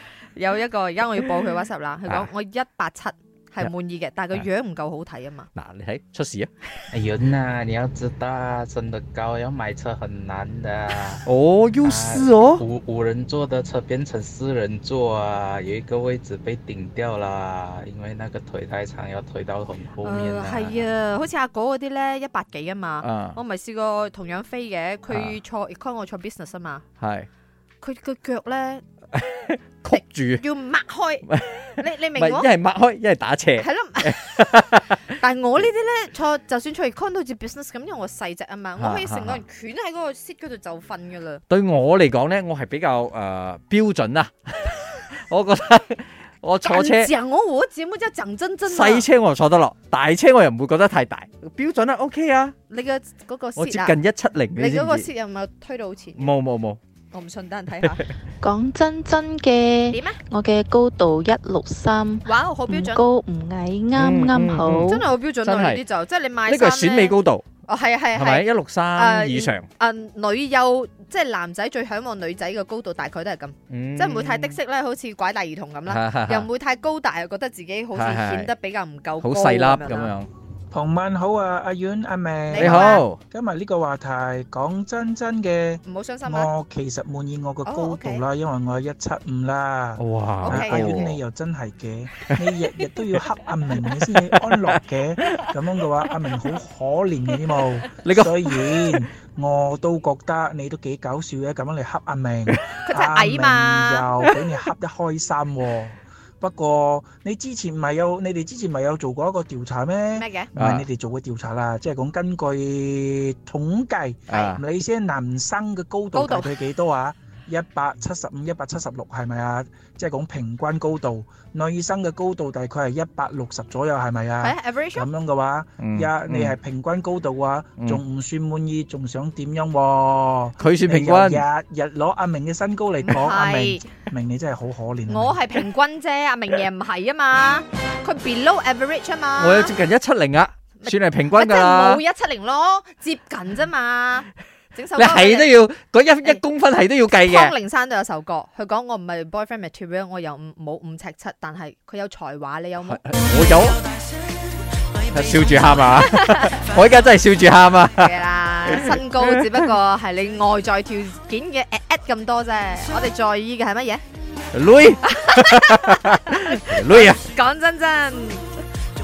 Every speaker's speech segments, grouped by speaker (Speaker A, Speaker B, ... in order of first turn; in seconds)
Speaker A: 0.3-5.5, 20.0-26.8, 27.8-28.8, 30.4-32.5, 33.6-41.4, 46.6-49.1, 52.7-54.0, 54.5-56.3, 57.1-58.1, 59.9-60.2, 62.2-63.0, 64.8-80.1, 82.5-83.0, 85.8-86.5, 87.6-88.2, 90.4-91.2, 102.8-104.1, 110.1-110.5, 116.1-116.6, 124.4-125.1, 133.0-133.9, 135.1-139.7, 140.8-145.5, 147.2-153.7, 156.0-156.6, 157.8-164.0, 165.0-168.4
Speaker B: 5.5-6.5, 11.2-12.6, 23.0-23.4, 25.1-25.3, 27.0-27.3, 29.1-30.4, 31.3-35.1, 38.8-39.4, 41.5-47.1, 48.7-52.5, 53.6-55.1, 56.2-56.8, 63.9-65.8, 66.5-67.4, 68.1-69.7, 73.7-74.6, 75.9-76.5, 77.9-78.5, 79.2-80.3, 82.6-83.2, 90.0-91.2, 92.3-93.2, 93.8-95.5, 97.6-99.0, 110.5-110.9, 114.3-114.6, 125.8-126.5, 130.6-131.4, 139.4-142.0, 144.9-147.5, 152.8-153.8, 155.1-158.1, 158.7-159.4, 164.5-167.2
Speaker C: 6.9-20.9
Speaker D: 58.4-64.8
Speaker E: 80.7-135.4